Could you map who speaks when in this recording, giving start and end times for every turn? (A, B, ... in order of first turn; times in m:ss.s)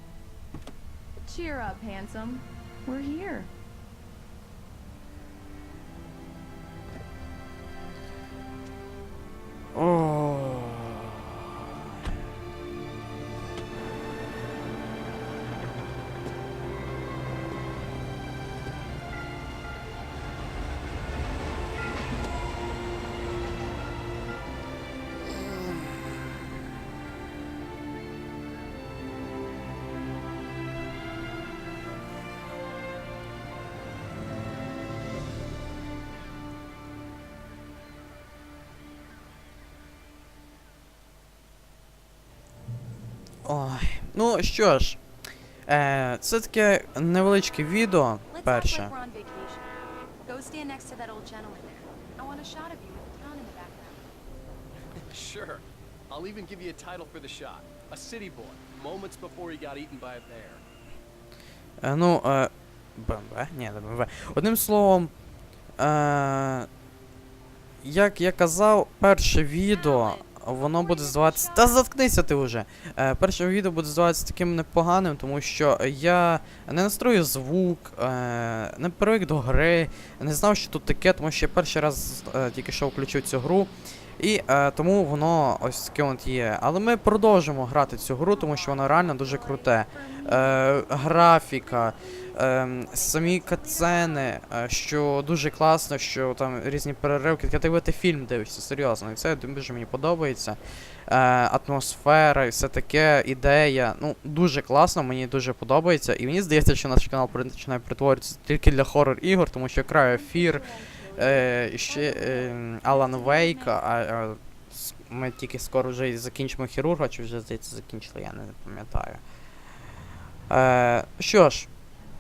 0:01.2-0:03.5 A
0:09.7-0:11.3 B
0:43.4-0:45.0 B
0:45.7-0:48.9 B
0:48.3-0:49.7 A
0:50.2-0:54.1 A
0:55.0-1:00.6 C
1:01.8-1:05.1 B
1:05.8-1:06.7 B
1:07.8-1:59.2 B
1:10.0-1:11.8 A
1:28.3-1:34.3 A
1:50.1-1:53.8 A
2:00.5-2:01.7 B